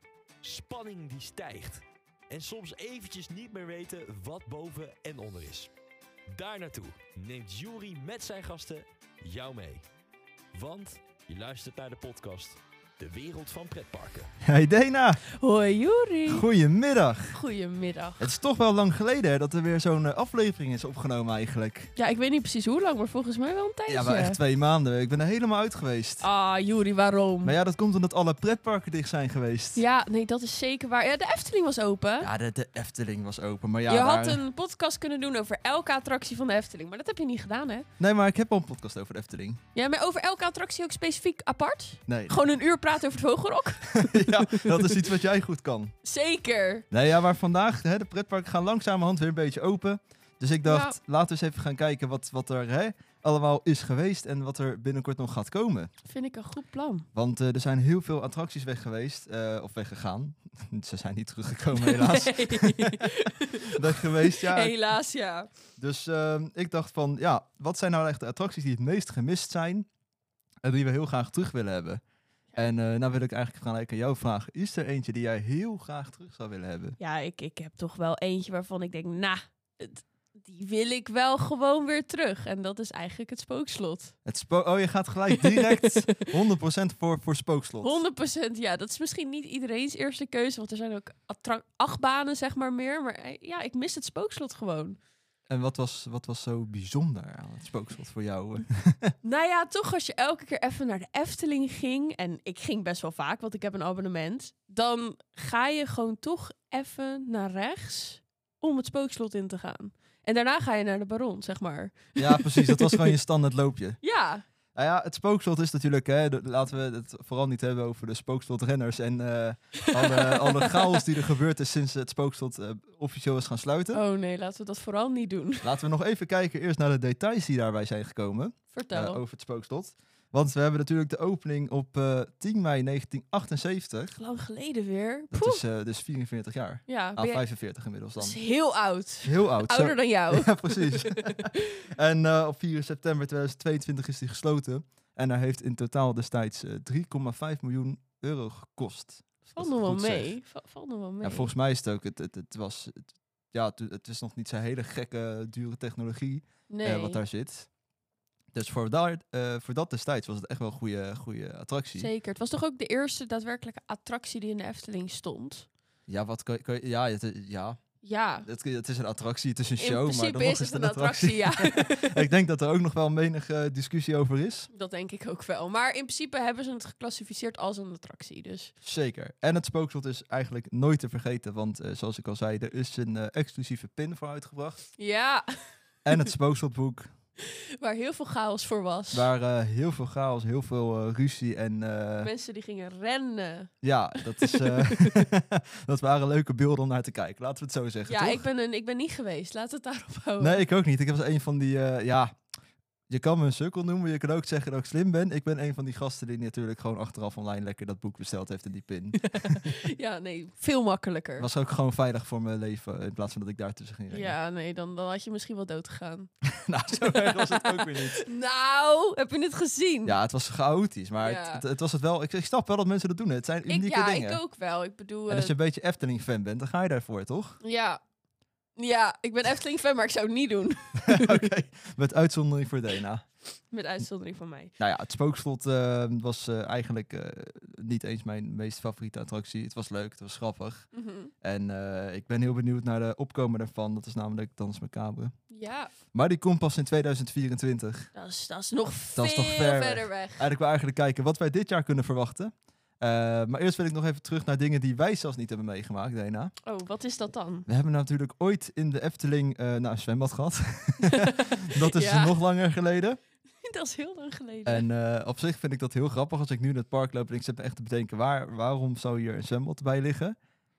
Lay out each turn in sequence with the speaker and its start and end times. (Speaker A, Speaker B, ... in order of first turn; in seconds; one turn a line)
Speaker A: 0.4-5.7
Speaker A: 6.3-9.8
Speaker A: 10.5-14.3
Speaker B: 14.4-15.2
Speaker C: 15.3-16.4
Speaker B: 16.3-17.4
Speaker C: 17.3-18.3
Speaker B: 18.2-21.9
Speaker C: 21.9-24.4
Speaker B: 23.9-26.2
Speaker C: 26.2-27.5
Speaker B: 27.4-29.8
Speaker C: 29.8-32.3
Speaker B: 32.2-34.4
Speaker C: 33.9-37.9
Speaker B: 38.0-39.6
Speaker C: 39.7-45.0
Speaker B: 42.1-42.4
Speaker B: 43.9-45.9
Speaker C: 46.0-46.9
Speaker B: 46.9-55.9
Speaker C: 50.6-51.0
Speaker C: 56.0-57.1
Speaker B: 57.1-64.7
Speaker C: 61.8-65.5
Speaker B: 65.8-69.9
Speaker B: 70.6-72.0
Speaker B: 72.5-77.0
Speaker C: 77.0-84.1
Speaker B: 84.2-87.9
Speaker C: 85.3-86.2
Speaker C: 87.8-95.0
Speaker B: 95.5-99.1
Speaker C: 99.2-113.1
Speaker B: 112.2-114.0
Speaker C: 114.0-114.4
Speaker B: 114.7-124.0
Speaker C: 119.8-121.0
Speaker C: 123.9-125.7
Speaker B: 125.6-134.2
Speaker C: 128.7-129.2
Speaker C: 134.2-135.6
Speaker B: 135.3-138.4
Speaker C: 136.9-137.4
Speaker C: 138.2-141.6
Speaker B: 139.2-150.4
Speaker C: 149.5-151.5
Speaker B: 151.2-157.7
Speaker C: 156.7-157.2
Speaker B: 158.5-162.1
Speaker C: 161.9-165.7
Speaker B: 166.1-167.8
Speaker C: 168.0-168.5
Speaker B: 168.4-174.7
Speaker C: 169.8-172.2
Speaker C: 174.7-178.7
Speaker B: 178.8-184.8
Speaker C: 185.0-186.2
Speaker B: 186.0-187.1
Speaker C: 187.4-189.3
Speaker B: 189.1-192.3
Speaker C: 192.2-195.2
Speaker B: 193.8-198.4
Speaker C: 198.1-200.6
Speaker B: 200.4-202.4
Speaker B: 203.1-209.7
Speaker C: 209.2-211.5
Speaker B: 211.4-214.3
Speaker C: 214.1-216.3
Speaker B: 216.4-218.2
Speaker C: 216.9-220.1
Speaker B: 220.1-224.4
Speaker C: 221.2-221.6
Speaker C: 223.7-225.5
Speaker B: 225.3-227.6
Speaker C: 227.6-228.0
Speaker C: 228.8-231.5
Speaker B: 231.0-233.2
Speaker C: 233.7-234.7
Speaker B: 234.8-240.9
Speaker C: 240.9-241.3
Speaker B: 241.4-245.3
Speaker C: 245.5-245.9
Speaker B: 246.1-248.1
Speaker C: 248.1-250.4
Speaker B: 249.1-256.5
Speaker C: 256.6-257.7
Speaker B: 257.7-263.2
Speaker C: 261.1-262.4
Speaker C: 263.6-264.9
Speaker B: 264.6-270.4